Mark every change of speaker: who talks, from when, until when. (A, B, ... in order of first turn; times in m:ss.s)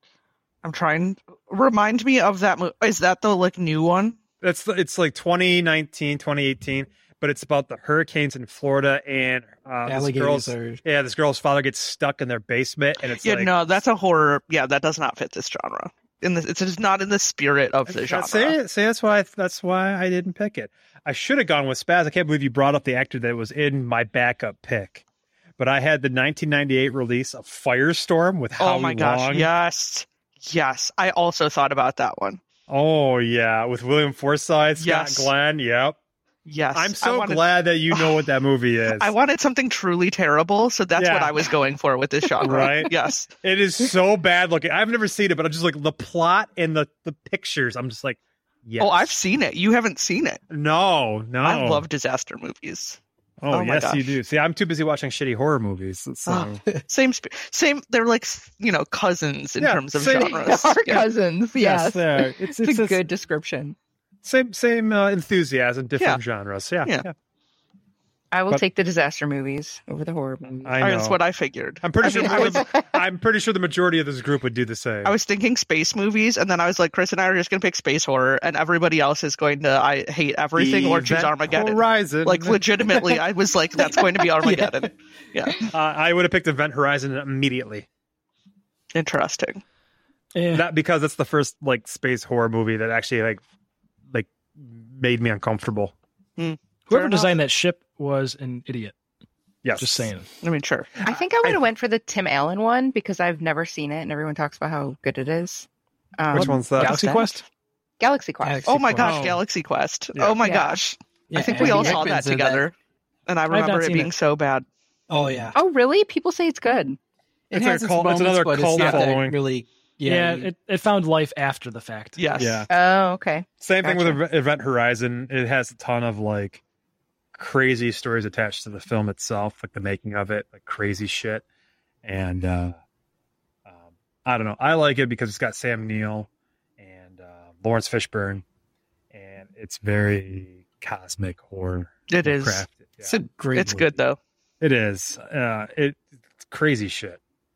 0:00.6-0:04.2 A
0:04.4-0:13.5 B
0:09.8-0:10.8 C
0:13.2-0:18.6 A
0:17.9-0:25.0 B
0:25.6-0:29.5 B
0:28.6-0:32.4 A
0:32.7-0:36.0 B
0:34.8-0:35.3 A
0:36.4-0:38.3 A
0:36.7-0:39.1 B
0:38.9-0:43.3 A
0:41.0-0:41.5 B
0:42.4-0:49.1 B
0:48.8-0:50.4 A
0:50.5-0:51.8 B
0:51.4-0:53.0 A
0:53.4-0:56.6 B
0:53.5-0:54.2 A
0:56.3-1:01.0 A
0:59.6-1:00.4 B
1:00.2-1:03.8 D
1:01.6-1:03.0 B
1:04.2-1:07.1 B
1:06.0-1:06.2 A
1:08.3-1:10.7 D
1:10.6-1:11.2 B
1:10.8-1:12.7 A
1:11.8-1:15.1 B
1:12.0-1:12.8 D
1:15.0-1:25.6 A
1:20.6-1:22.6 B
1:24.4-1:24.9 C
1:25.7-1:27.9 B
1:28.9-1:29.6 A
1:30.3-1:30.7 E
1:30.5-1:33.4 B
1:34.1-1:35.9 B
1:36.4-1:37.3 A
1:36.9-1:38.9 E
1:39.6-1:40.1 B
1:39.8-1:40.3 E
1:40.4-1:40.9 A
1:41.0-1:41.6 B
1:41.0-1:45.7 D
1:46.2-1:47.1 D
1:46.3-1:47.1 B
1:46.4-1:47.4 E
1:46.8-1:47.3 A
1:48.0-1:48.7 D
1:48.4-1:49.4 C
1:48.7-1:52.7 A
1:49.0-1:49.4 B
1:50.4-1:50.8 D
1:51.3-1:52.6 C
1:51.4-1:52.0 D
1:53.3-1:54.6 A
1:53.5-1:54.1 E
1:55.1-1:55.6 C
1:55.5-1:57.0 D
1:57.5-2:00.5 C
1:57.5-1:59.4 B
1:58.8-1:59.0 A
2:00.0-2:02.2 E
2:02.2-2:02.7 A
2:02.4-2:02.7 B
2:02.7-2:04.2 D
2:03.6-2:06.6 B
2:07.3-2:11.4 B
2:12.0-2:12.8 B
2:13.7-2:18.4 B
2:19.1-2:23.2 B
2:22.1-2:22.6 A
2:23.0-2:24.0 C
2:23.5-2:24.2 A
2:24.6-2:27.2 B